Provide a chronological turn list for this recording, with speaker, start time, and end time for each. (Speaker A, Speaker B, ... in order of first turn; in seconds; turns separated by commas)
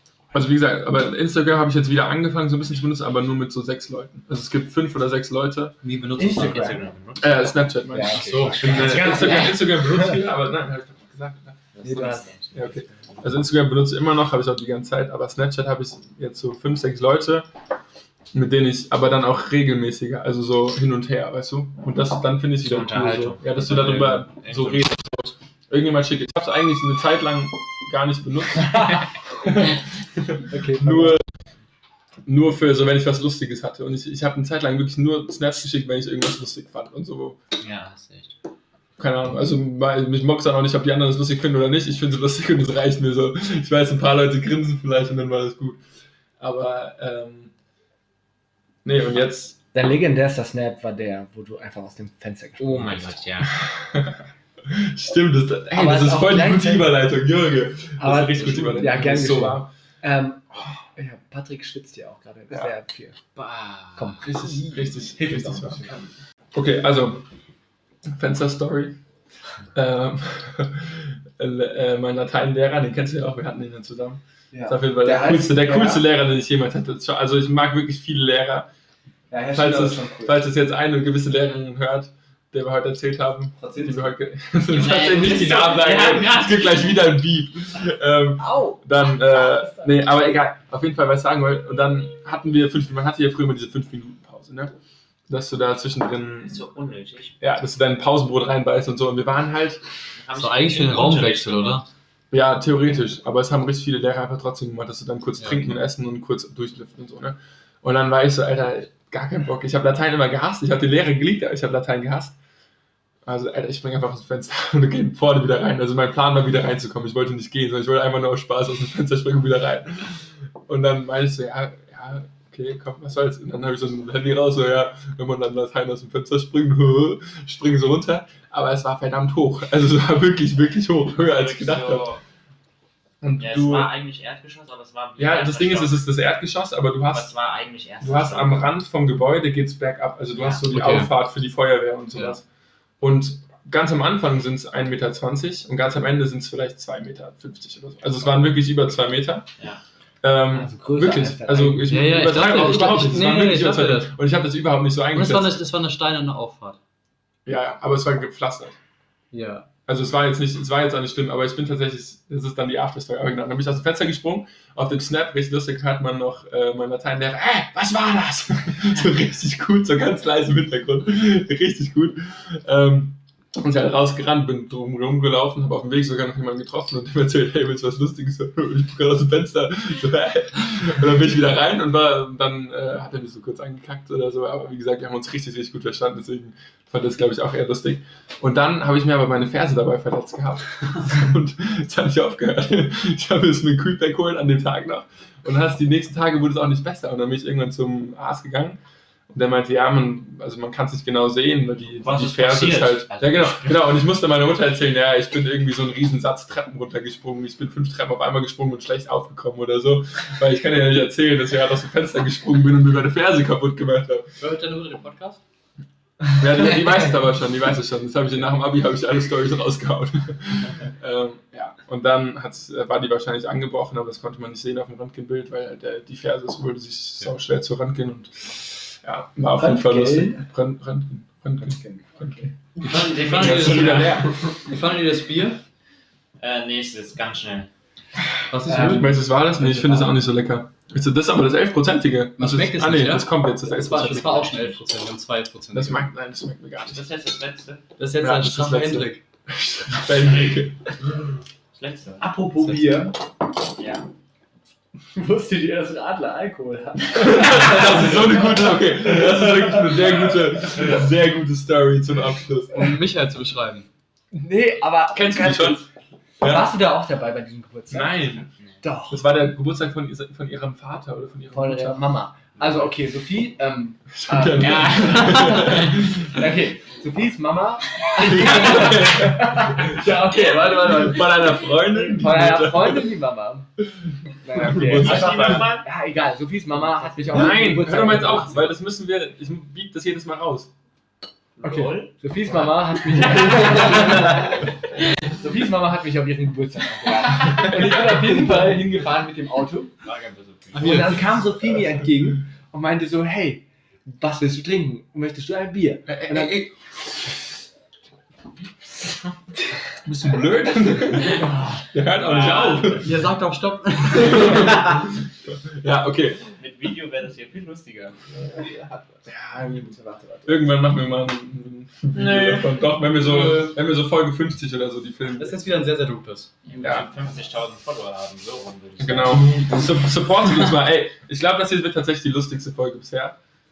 Speaker A: 0.3-5.8, Speaker B: 5.8-6.8, Speaker C: 6.2-6.8, Speaker D: 6.3-7.6, Speaker A: 7.2-11.6, Speaker C: 7.9-10.1, Speaker B: 8.1-8.9, Speaker D: 8.6-9.7, Speaker D: 11.7-13.2, Speaker C: 11.8-12.3, Speaker A: 12.5-17.5, Speaker A: 18.3-31.2, Speaker D: 22.6-25.0, Speaker C: 30.5-31.2, Speaker A: 32.2-37.4, Speaker D: 37.6-38.3, Speaker A: 39.0-45.8, Speaker A: 46.4-47.5, Speaker A: 48.8-49.6, Speaker C: 49.7-53.1, Speaker D: 52.6-53.5, Speaker A: 53.4-59.7, Speaker C: 55.7-57.0, Speaker C: 58.0-63.2, Speaker D: 63.3-64.2, Speaker C: 63.9-66.0, Speaker A: 64.2-67.2, Speaker A: 68.1-69.0, Speaker A: 69.7-78.7, Speaker C: 74.5-76.1, Speaker C: 79.3-80.4, Speaker A: 79.5-94.7, Speaker C: 83.6-84.1, Speaker D: 84.7-86.9, Speaker C: 88.4-90.0, Speaker A: 95.3-96.6, Speaker D: 96.5-97.3, Speaker A: 97.4-99.8, Speaker D: 100.1-101.8, Speaker B: 100.3-101.8, Speaker A: 102.3-112.3, Speaker B: 105.4-105.8, Speaker A: 113.2-132.1, Speaker D: 131.2-132.2, Speaker A: 133.2-133.9, Speaker D: 133.4-136.1, Speaker A: 135.2-137.3, Speaker D: 137.1-138.7, Speaker A: 138.0-142.4, Speaker D: 140.3-140.6, Speaker B: 140.7-141.1, Speaker A: 143.0-149.5, Speaker A: 150.2-155.6, Speaker C: 150.5-152.1, Speaker B: 151.9-154.1, Speaker B: 155.1-156.8, Speaker A: 157.4-158.7, Speaker B: 159.3-159.7, Speaker A: 159.9-198.8, Speaker A: 199.3-214.3, Speaker D: 202.0-204.0, Speaker B: 214.4-215.4, Speaker A: 216.3-232.4, Speaker C: 229.5-230.4, Speaker C: 231.6-232.5, Speaker D: 232.8-234.4, Speaker B: 232.8-235.6, Speaker A: 233.3-234.3, Speaker D: 236.4-237.7, Speaker B: 238.5-239.2, Speaker C: 238.7-240.2, Speaker A: 238.7-244.8, Speaker B: 242.4-246.1, Speaker A: 245.7-247.0, Speaker D: 246.9-247.8, Speaker B: 248.0-249.2, Speaker A: 248.2-251.0, Speaker D: 251.7-252.3, Speaker C: 252.2-253.2, Speaker B: 252.6-253.1, Speaker D: 253.8-254.1, Speaker C: 255.1-259.9, Speaker A: 257.1-262.9, Speaker B: 262.7-263.9, Speaker C: 264.3-265.9, Speaker A: 265.1-265.8, Speaker A: 266.4-266.7, Speaker C: 266.4-269.3, Speaker A: 267.9-268.5, Speaker A: 269.1-272.1, Speaker C: 271.5-283.7, Speaker D: 272.6-272.8, Speaker A: 274.1-276.4, Speaker D: 274.6-275.8, Speaker A: 278.1-283.1, Speaker C: 284.4-288.7, Speaker A: 284.4-285.8, Speaker D: 284.8-285.9, Speaker D: 286.9-288.0, Speaker A: 287.3-290.7, Speaker D: 291.6-294.5, Speaker C: 291.6-299.9, Speaker A: 297.5-298.5, Speaker D: 300.0-301.2, Speaker C: 300.7-306.6, Speaker B: 300.8-301.1, Speaker A: 306.1-306.8, Speaker A: 310.0-313.2, Speaker C: 311.4-311.8, Speaker D: 312.1-313.1, Speaker B: 312.9-314.8, Speaker A: 314.2-315.1, Speaker A: 315.7-316.4, Speaker D: 316.6-318.2, Speaker C: 318.6-320.8, Speaker A: 319.3-319.9, Speaker A: 320.4-325.7, Speaker D: 322.1-322.8, Speaker B: 323.2-323.7, Speaker B: 325.4-326.5, Speaker D: 326.6-329.6, Speaker A: 326.8-327.1, Speaker A: 329.0-333.4